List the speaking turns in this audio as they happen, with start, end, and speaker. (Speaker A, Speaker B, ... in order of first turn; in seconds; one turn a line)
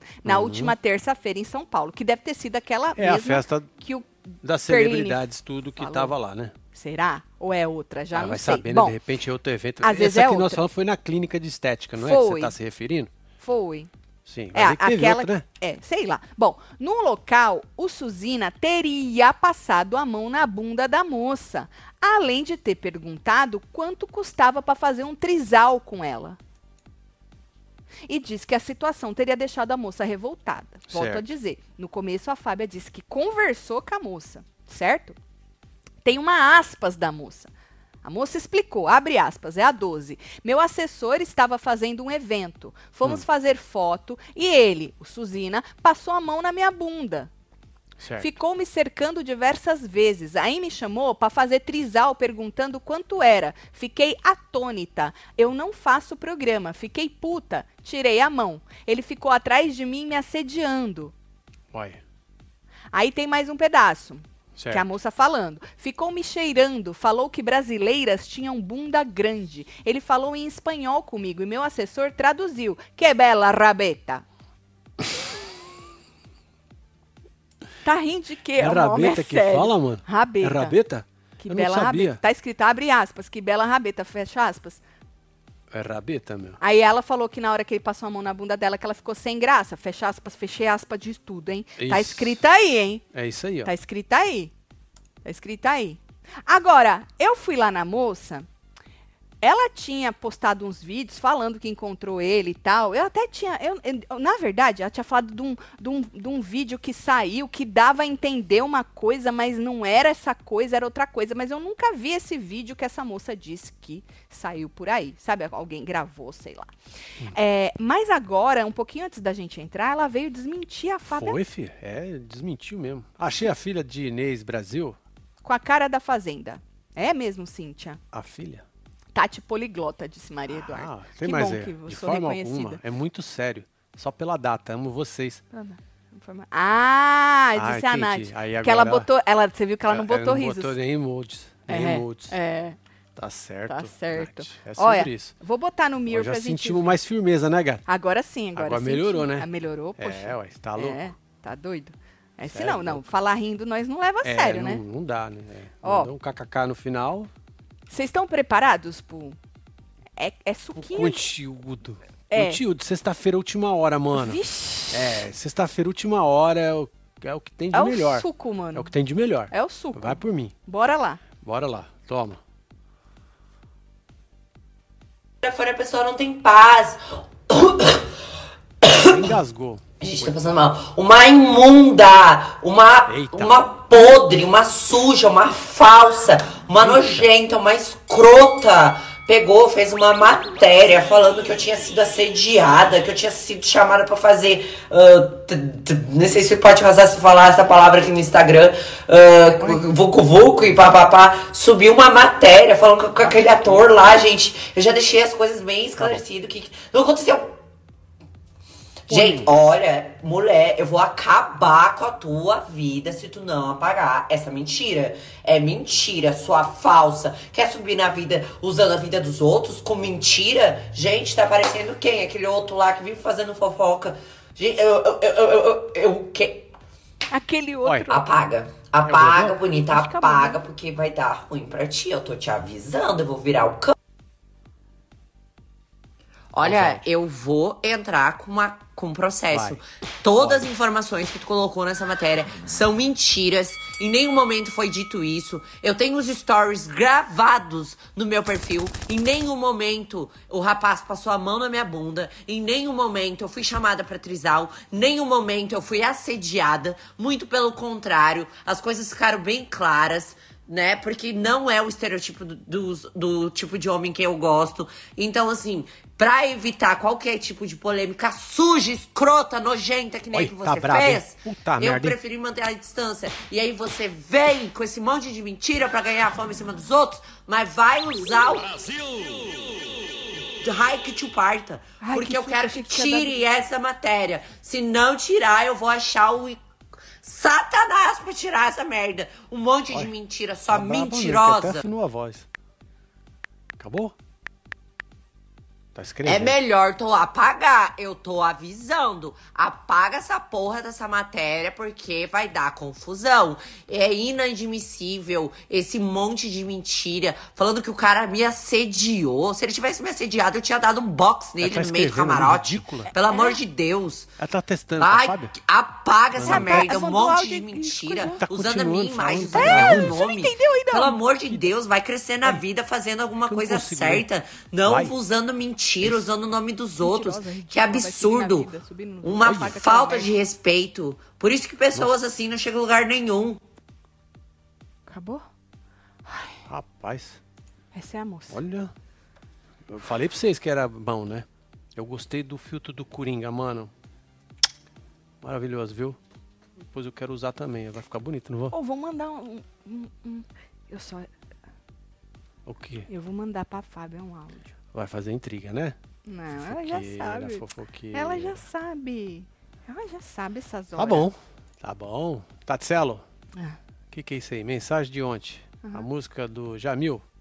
Speaker A: 0.2-4.1
Speaker B: 0.2-0.7
Speaker B: 3.0-3.7
Speaker B: 4.4-6.5
Speaker A: 4.6-5.2
Speaker A: 5.8-6.1
Speaker A: 6.7-9.0
Speaker B: 8.1-13.1
Speaker A: 9.8-10.6
Speaker A: 12.0-12.5
Speaker A: 13.4-13.9
Speaker B: 14.2-15.4
Speaker A: 14.5-26.4
Speaker A: 28.1-35.2
Speaker B: 30.9-31.3
Speaker A: 36.0-37.5
Speaker A: 38.0-47.3
Speaker B: 48.0-48.3
Speaker A: 48.2-61.1
Speaker B: 61.7-62.0
Speaker A: 62.9-74.2
Speaker B: 64.5-64.8
Speaker A: 77.8-80.8
Speaker B: 78.6-82.2
Speaker A: 81.4-84.8
Speaker B: 85.7-86.6
Speaker A: 86.6-93.0
Speaker B: 91.8-92.4
Speaker B: 93.1-93.7
Speaker A: 93.6-94.5
Speaker A: 95.2-98.5
Speaker A: 99.4-116.7
Speaker A: 117.3-121.4
Speaker B: 121.1-125.0
Speaker A: 125.4-128.0
Speaker B: 128.1-128.6
Speaker A: 129.1-132.8
Speaker B: 130.5-135.4
Speaker A: 135.5-140.8
Speaker B: 137.6-139.1
Speaker B: 139.9-142.3
Speaker A: 141.7-142.8
Speaker B: 143.2-145.3
Speaker A: 143.7-146.9
Speaker B: 146.1-147.8
Speaker A: 147.9-154.8
Speaker B: 148.6-151.0
Speaker B: 152.5-153.0
Speaker B: 154.2-157.3
Speaker A: 155.8-156.1
Speaker A: 157.9-159.4
Speaker A: 160.2-161.2
Speaker B: 160.8-170.5
Speaker A: 162.3-162.6
Speaker A: 164.1-165.2
Speaker A: 167.7-168.9
Speaker A: 169.5-171.2
Speaker B: 171.4-172.4
Speaker C: 175.4-178.1
Speaker C: 178.8-179.3
Speaker B: 178.9-180.4
Speaker C: 180.0-207.6
Speaker B: 183.1-183.6
Speaker B: 186.8-187.3
Speaker B: 203.2-203.8
Speaker C: 209.1-226.7
Speaker B: 209.1-209.5
Speaker A: 227.3-228.3
Speaker C: 228.1-233.9
Speaker B: 229.0-229.6
Speaker A: 229.8-230.6
Speaker C: 236.5-279.4
Speaker B: 236.6-237.0
Speaker B: 239.5-239.8
Speaker B: 240.4-240.7
Speaker B: 270.3-272.2
Speaker C: 280.6-286.6
Speaker A: 282.0-283.4
Speaker C: 287.2-291.8
Speaker B: 290.7-292.4
Speaker B: 293.8-294.1
Speaker B: 295.9-296.6
Speaker C: 296.2-314.3
Speaker B: 311.6-313.1
Speaker A: 313.3-313.6
Speaker B: 314.4-315.5
Speaker C: 315.0-328.7
Speaker B: 316.4-316.9
Speaker A: 316.4-318.4
Speaker B: 318.4-320.1
Speaker A: 319.5-321.2
Speaker B: 321.4-321.7
Speaker B: 323.4-324.2
Speaker B: 324.8-325.1
Speaker A: 327.0-330.3
Speaker C: 329.2-333.6
Speaker B: 329.4-329.8
Speaker A: 335.1-335.4
Speaker A: 336.3-336.6
Speaker B: 336.7-337.4
Speaker A: 337.9-338.6
Speaker B: 338.5-338.9
Speaker B: 339.9-343.9
Speaker B: 345.4-346.2
Speaker B: 346.8-348.7
Speaker A: 348.7-351.3
Speaker B: 352.6-353.1
Speaker A: 353.1-354.7
Speaker B: 354.9-355.9
Speaker A: 356.2-361.3
Speaker B: 356.6-358.6
Speaker B: 360.9-363.2
Speaker B: 364.1-367.2